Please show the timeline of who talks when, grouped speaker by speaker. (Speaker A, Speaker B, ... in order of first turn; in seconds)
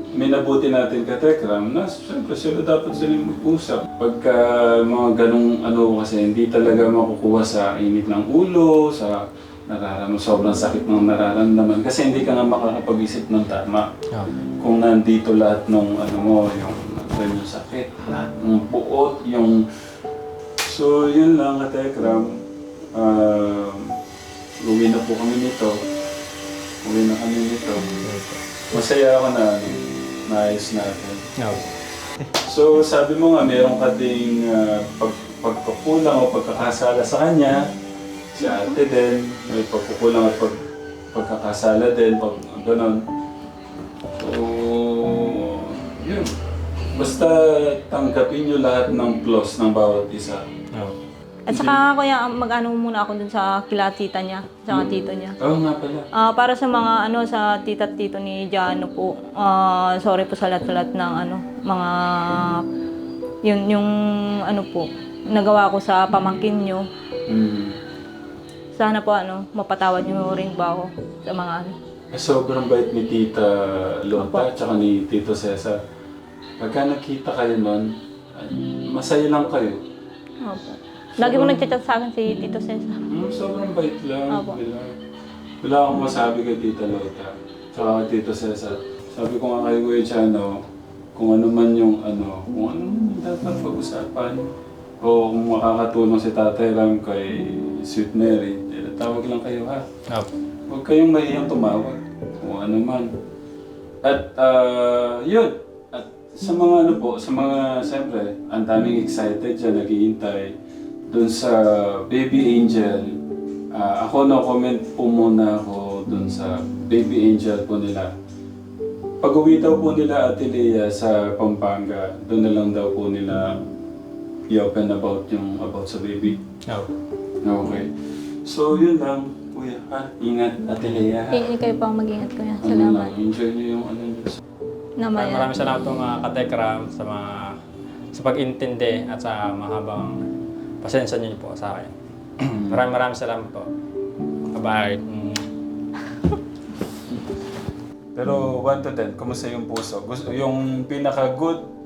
Speaker A: 0.1-13.9, 14.6-19.7, 20.6-22.4, 22.9-24.0, 24.6-25.8, 26.8-27.8, 28.7-31.3, 32.4-37.7, 38.3-40.6, 41.1-43.0, 44.1-46.3, 46.9-50.5, 51.5-51.8, 54.7-56.1, 67.3-67.8, 72.1-75.8, 76.6-79.8, 81.2-81.7, 83.1-85.0, 85.6-90.6, 91.1-99.9, 100.7-103.1, 104.0-110.5, 111.1-113.2, 113.7-118.1, 119.2-123.6, 124.5-126.4, 127.4-131.5, 132.6-134.4, 142.5-142.8, 148.1-151.7
Speaker B: 28.0-28.4, 31.4-31.7, 126.7-126.9, 135.2-137.6, 138.1-140.2, 140.8-143.7, 144.5-145.5
Speaker C: 51.5-55.4, 56.1-62.6, 63.4-66.9, 68.7-71.8, 74.2-74.5, 80.4-83.0, 84.3-84.6, 131.3-133.2, 135.0-135.5